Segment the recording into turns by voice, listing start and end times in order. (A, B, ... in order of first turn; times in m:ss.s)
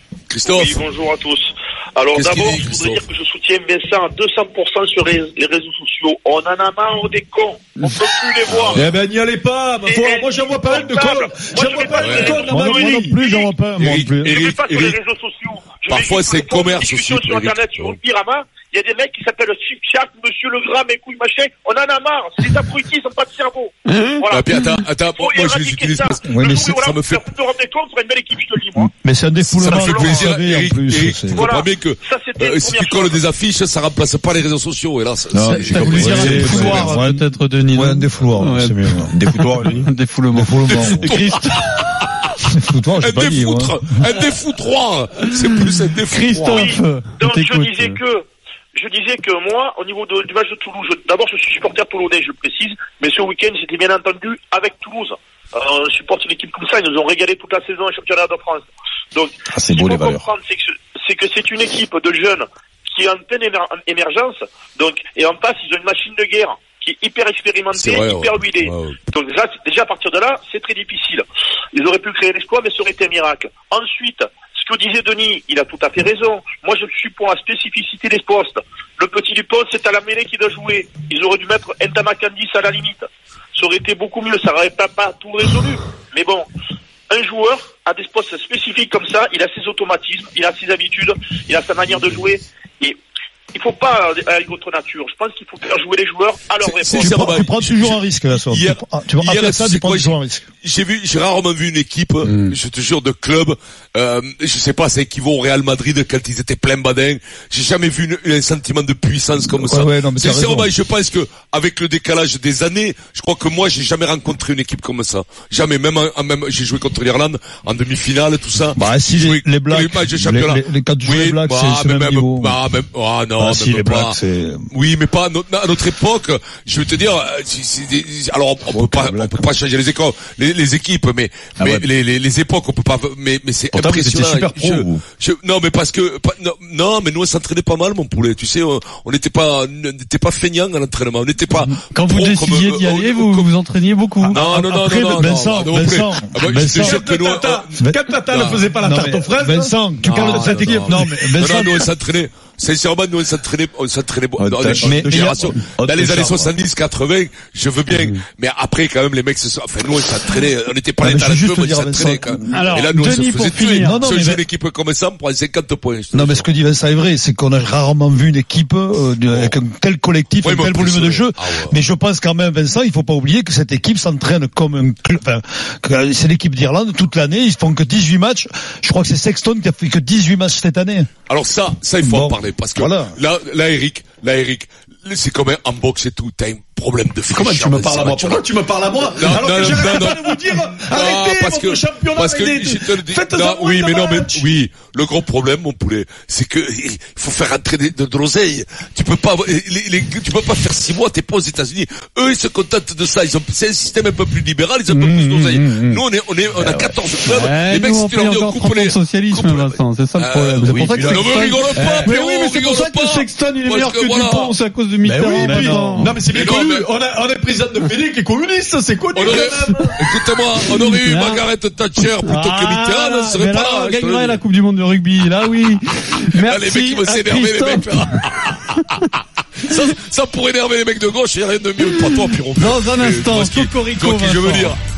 0:00.3-0:00.8 A
0:00.6-0:08.7 B
0:02.1-0:03.0 A
0:08.5-0:08.8 A
0:08.7-0:13.3 C
0:09.8-0:13.5 B
0:11.9-0:12.4 A
0:12.4-0:14.4 D
0:13.8-0:15.0 A
0:14.5-0:23.7 B
0:15.9-0:18.0 A
0:23.9-0:24.7 E
0:24.3-0:27.3 A
0:25.2-0:28.9 B
0:26.2-0:26.9 D
0:28.8-0:31.5 D
0:29.5-0:36.8 A
0:31.4-0:33.1 B
0:35.3-0:37.0 C
0:35.6-0:39.0 E
0:35.9-0:39.2 D
0:39.1-0:39.9 C
0:39.7-0:41.6 E
0:40.3-0:41.1 D
0:40.7-0:42.3 A
0:42.5-0:44.0 D
0:43.0-0:46.7 A
0:46.1-0:48.0 E
0:47.2-0:48.2 B
0:48.8-1:02.4 B
0:59.5-1:00.3 C
1:03.0-1:11.2 B
1:07.7-1:09.0 A
1:11.8-1:23.0 B
1:23.6-1:26.5 B
1:27.1-1:33.0 B
1:33.6-1:36.7 B
1:36.6-2:04.2 A
1:36.9-1:40.4 D
1:42.2-1:42.6 D
1:49.5-1:50.7 D
1:58.8-2:02.6 D
2:03.4-2:04.7 D
2:04.7-2:23.5 A
2:08.7-2:09.4 D
2:11.6-2:11.9 C
2:13.7-2:15.0 C
2:21.9-2:24.4 E
2:24.2-2:27.8 A
2:24.3-2:27.0 D
2:26.7-2:31.3 C
2:28.3-2:28.7 A
2:28.8-2:31.9 D
2:30.0-2:46.5 A
2:34.4-2:36.6 C
2:34.8-2:35.2 D
2:41.0-2:42.8 D
2:42.5-2:44.0 E
2:43.8-2:44.4 D
2:46.1-3:01.1 D
2:49.3-2:49.6 A
2:50.4-2:51.8 A
3:01.3-3:08.5 A
3:02.0-3:03.2 D
3:07.3-3:14.5 C
3:09.2-3:34.6 A
3:24.9-3:26.0 E
3:26.6-3:27.0 C
3:27.3-3:36.1 E
3:30.6-3:32.2 C
3:35.0-3:39.9 C
3:35.4-3:36.1 D
3:36.3-3:36.9 A
3:39.1-3:44.4 A
3:39.3-3:39.8 E
3:40.7-3:41.4 E
3:42.2-3:48.0 E
3:46.3-3:54.8 A
3:51.8-3:54.8 E